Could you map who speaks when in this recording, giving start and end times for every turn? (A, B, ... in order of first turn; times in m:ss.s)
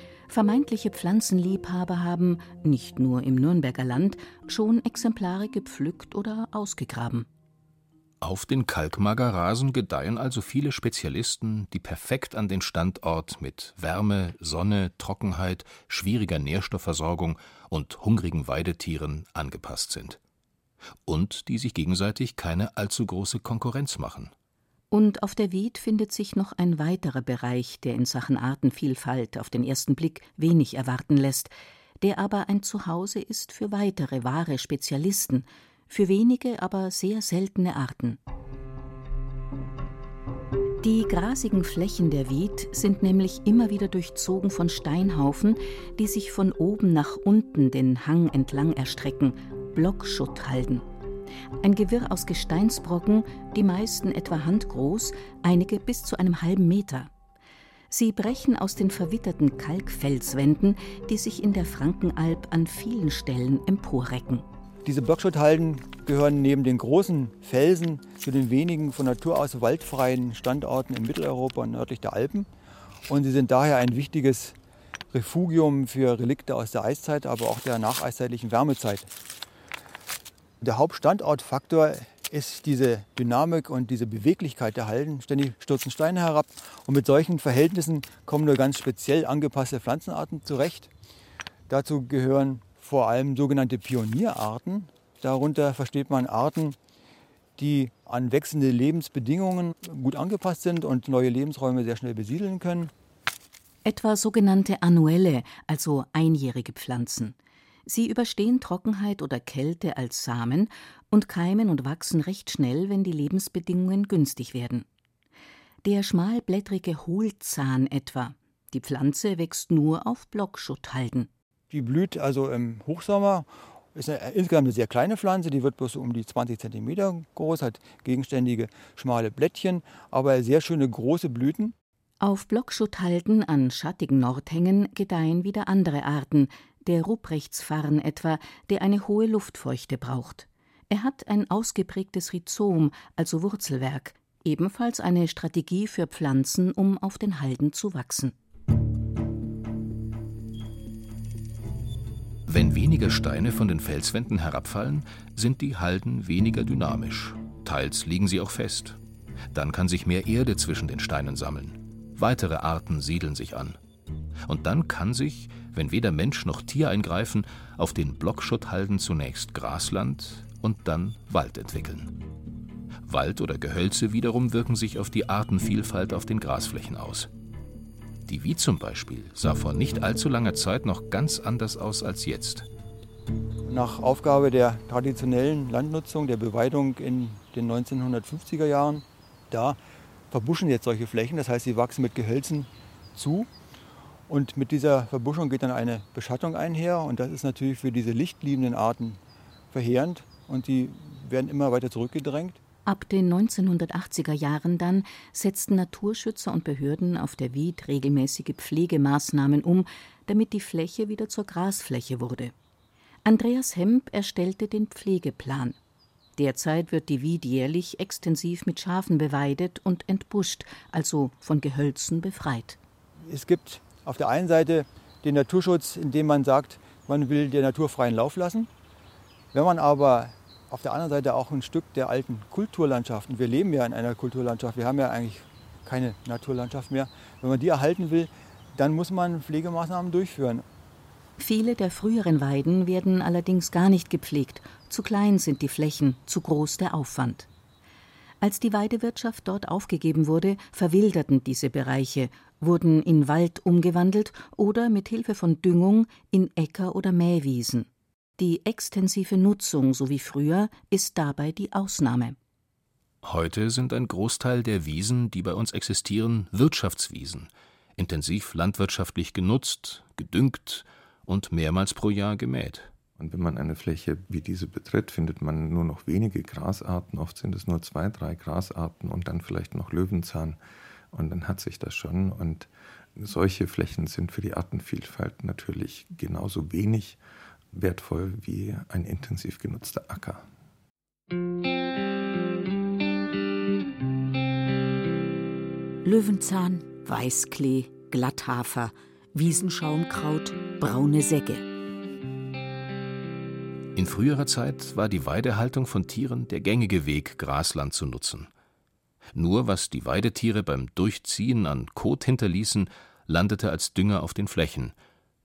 0:00.3-0:07.3 A
0:08.2-0:20.2 B
0:21.1-0:24.3 B
0:24.9-0:38.2 A
0:40.8-0:50.8 A
0:51.6-0:57.1 A
0:57.9-1:04.4 A
1:04.8-1:12.5 C
1:13.1-1:14.6 C
1:15.1-1:19.1 C
1:20.6-1:30.9 C
1:31.7-1:36.8 C
1:37.6-1:42.9 C
1:43.8-1:47.4 A
1:47.9-1:54.9 A
1:55.8-2:01.3 A
2:01.7-2:11.7 C
2:12.2-2:28.3 A
2:32.5-2:39.0 B
2:39.5-2:43.8 B
2:44.4-2:52.1 B
2:53.1-2:57.3 B
2:58.3-3:02.7 B
3:03.6-3:09.8 C
3:10.3-3:13.5 C
3:14.3-3:19.2 C
3:19.7-3:22.6 C
3:22.9-3:32.5 A
3:33.2-3:35.8 A
3:36.4-3:42.8 A
3:43.2-3:48.7 C
3:49.5-4:00.6 C
4:01.4-4:07.5 A
4:08.4-4:17.9 A
4:18.4-4:22.4 A
4:23.2-4:32.9 B
4:33.2-4:40.6 D
4:41.1-4:47.2 D
4:47.7-4:50.5 D
4:56.0-5:01.7 E
5:04.0-5:08.5 B
5:09.3-5:14.9 B